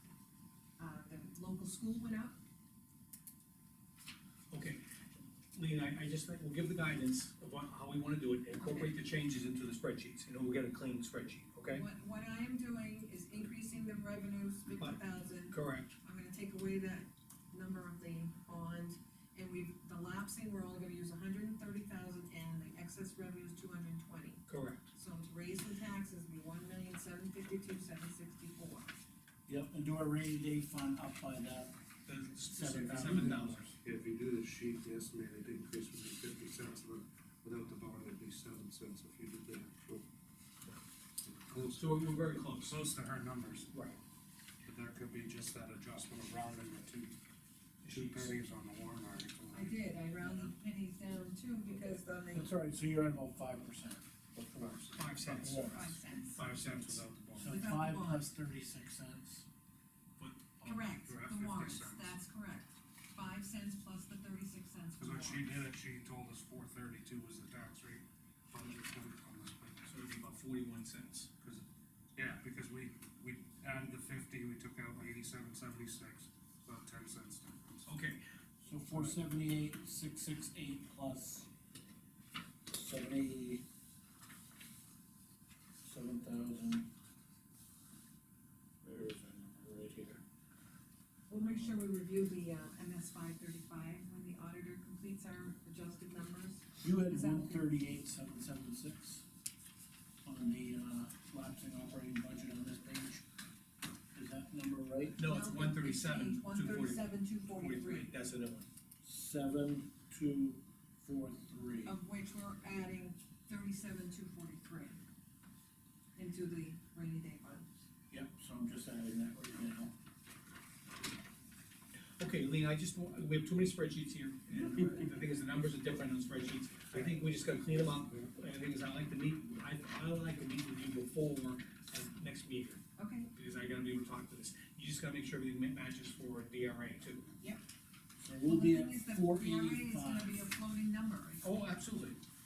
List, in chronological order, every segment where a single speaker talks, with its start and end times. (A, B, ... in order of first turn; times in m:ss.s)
0:00.8-0:02.4 A
0:04.5-0:04.8 B
0:05.5-0:11.8 B
0:08.6-0:08.9 A
0:11.7-0:28.9 A
0:14.7-0:15.0 B
0:15.5-0:15.9 B
0:24.5-0:24.9 B
0:29.5-0:31.7 C
0:32.0-0:33.7 B
0:32.4-0:33.7 C
0:33.1-0:40.0 D
0:41.2-0:43.7 D
0:41.7-0:42.7 B
0:43.7-0:44.0 B
0:44.6-0:47.2 D
0:47.8-0:48.4 B
0:47.8-0:49.7 D
0:49.5-0:52.5 A
0:52.3-0:55.9 C
0:54.6-0:55.4 D
0:54.8-0:55.7 B
0:55.6-0:56.4 A
0:56.3-0:57.0 B
0:56.4-0:57.6 D
0:57.4-0:59.5 C
0:57.4-0:58.3 A
1:00.2-1:00.6 B
1:00.6-1:05.6 A
1:01.0-1:02.0 D
1:05.0-1:09.9 D
1:09.8-1:11.3 B
1:11.4-1:11.6 D
1:12.2-1:17.9 D
1:17.9-1:18.2 B
1:18.6-1:21.5 C
1:18.9-1:19.2 D
1:22.7-1:23.6 C
1:25.8-1:26.9 C
1:28.8-1:30.2 C
1:31.3-1:37.7 A
1:31.4-1:31.7 C
1:36.8-1:39.2 C
1:40.2-1:43.2 C
1:44.1-1:45.2 C
1:45.2-1:48.7 B
1:45.2-1:48.1 A
1:49.0-1:52.0 C
1:51.8-1:55.0 A
1:56.2-1:57.7 A
1:58.1-1:59.9 C
2:02.2-2:17.3 B
2:06.9-2:08.2 D
2:13.0-2:13.3 A
2:18.2-2:20.4 C
2:18.4-2:21.6 A
2:21.4-2:22.2 B